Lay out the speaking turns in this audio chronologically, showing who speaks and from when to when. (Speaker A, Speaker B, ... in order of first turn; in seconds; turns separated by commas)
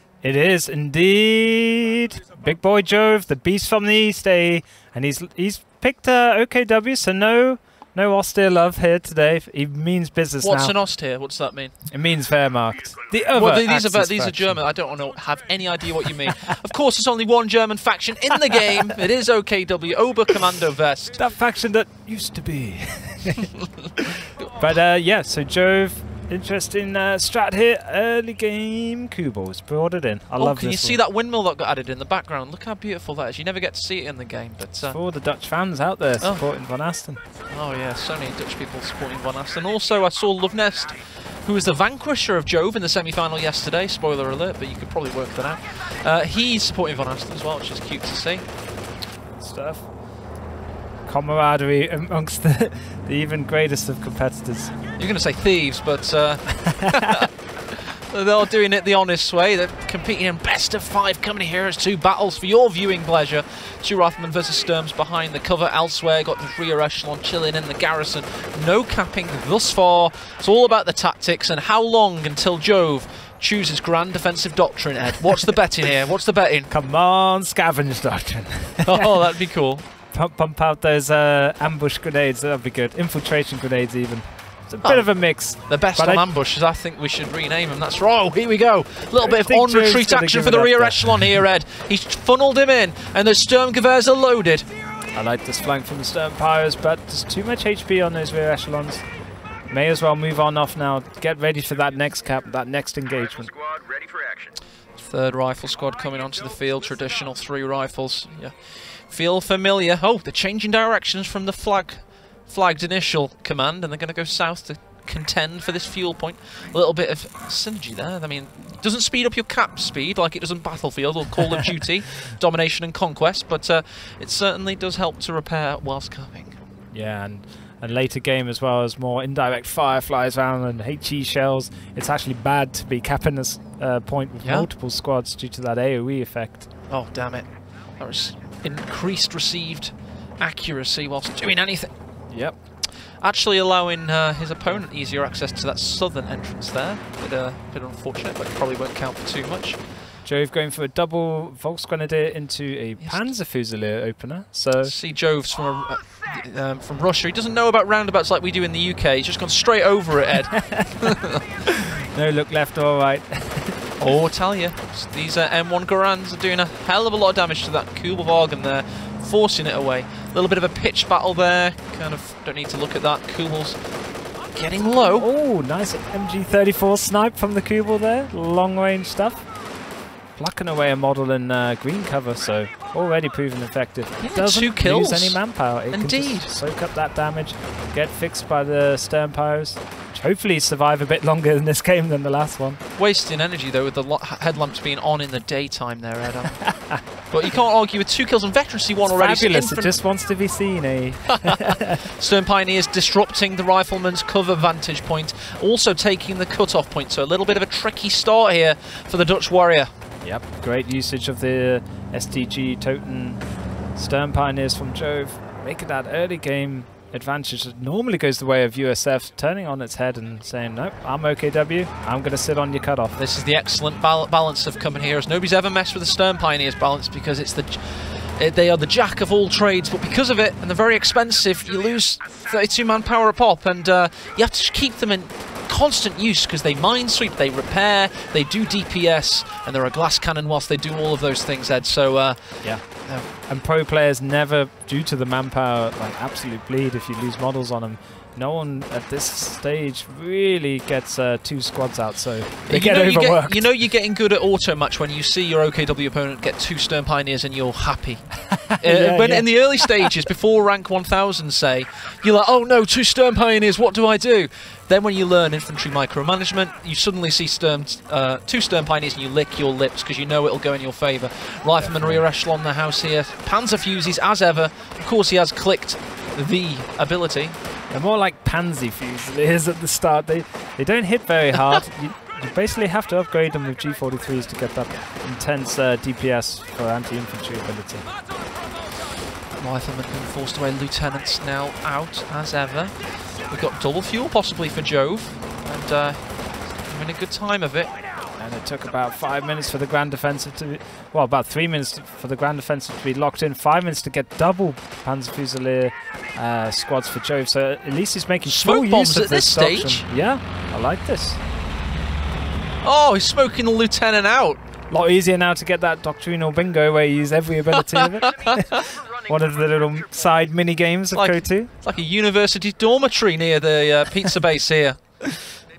Speaker A: 0.2-10.7, Speaker B: 10.4-11.7, Speaker A: 11.9-14.6, Speaker B: 13.3-21.2, Speaker A: 18.5-18.9, Speaker A: 21.1-31.0, Speaker B: 23.4-24.5, Speaker B: 30.4-35.0, Speaker A: 34.9-37.2, Speaker B: 37.5-48.4, Speaker A: 49.4-49.9, Speaker A: 51.0-54.7, Speaker B: 55.0-76.7, Speaker A: 56.7-57.2, Speaker A: 76.7-79.3, Speaker B: 78.8-79.8, Speaker A: 80.1-86.3, Speaker B: 84.8-85.1, Speaker B: 85.7-94.7, Speaker A: 89.1-91.4, Speaker A: 95.1-99.0, Speaker A: 99.7-103.5, Speaker C: 103.4-104.5, Speaker B: 105.0-126.6, Speaker A: 126.9-136.7, Speaker B: 136.9-137.5, Speaker B: 138.0-141.9, Speaker A: 142.3-142.6, Speaker B: 143.2-149.8, Speaker A: 150.2-154.9, Speaker B: 154.8-161.4, Speaker A: 160.6-161.1, Speaker A: 161.6-163.9, Speaker B: 164.0-173.8, Speaker B: 174.5-175.3, Speaker A: 175.0-179.4, Speaker A: 180.3-192.8, Speaker B: 184.2-185.4, Speaker B: 185.9-186.5, Speaker B: 193.0-196.6, Speaker A: 196.6-197.0, Speaker B: 197.3-199.9, Speaker A: 199.0-202.1, Speaker B: 201.2-209.9, Speaker A: 210.2-213.4, Speaker A: 213.9-223.2, Speaker B: 223.2-243.3, Speaker A: 243.4-253.7, Speaker B: 252.7-258.2, Speaker A: 258.5-260.1, Speaker B: 258.8-277.6, Speaker A: 271.8-272.2, Speaker A: 277.9-288.1, Speaker B: 281.5-281.8, Speaker B: 289.6-297.9, Speaker A: 298.4-311.4, Speaker B: 308.4-310.0, Speaker B: 312.8-314.6, Speaker A: 314.9-321.7, Speaker B: 317.7-318.9, Speaker C: 318.3-320.4, Speaker B: 321.1-325.0